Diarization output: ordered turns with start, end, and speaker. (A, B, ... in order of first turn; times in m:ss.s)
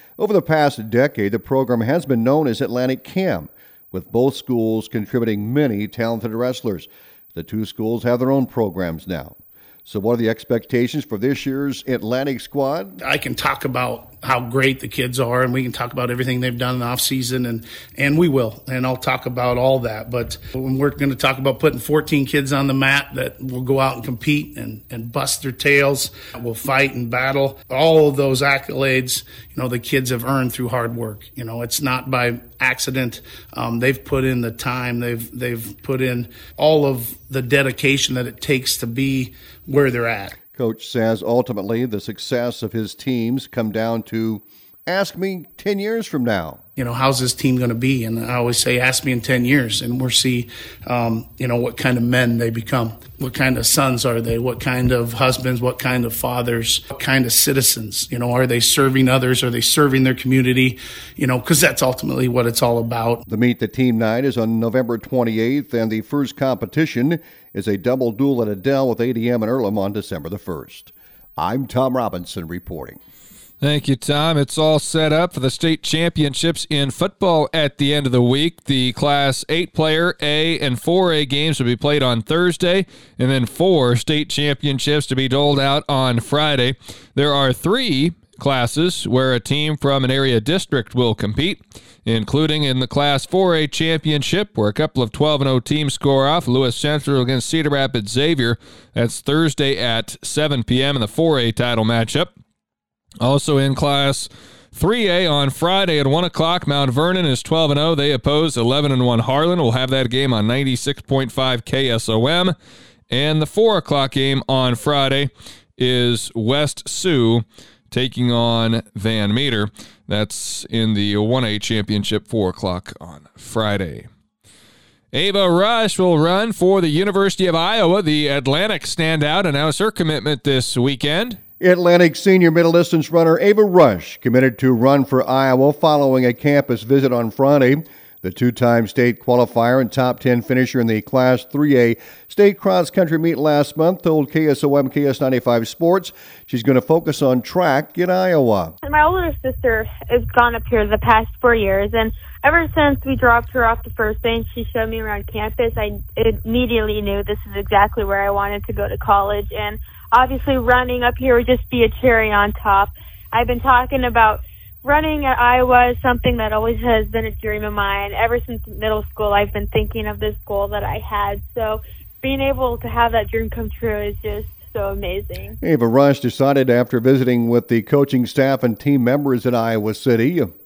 0:00.2-0:13.0 A
0:13.0-0:40.3 B
0:40.5-0:46.6 A
0:46.8-1:03.2 B
1:03.3-1:13.0 A
1:13.6-1:31.6 C
1:32.2-1:42.3 C
1:43.2-1:44.3 C
1:45.0-1:52.5 C
1:53.1-1:55.3 C
1:55.8-1:57.4 C
1:58.0-2:04.0 C
2:05.1-2:11.4 C
2:11.6-2:28.7 A
2:28.8-2:55.6 D
2:55.6-3:00.5 A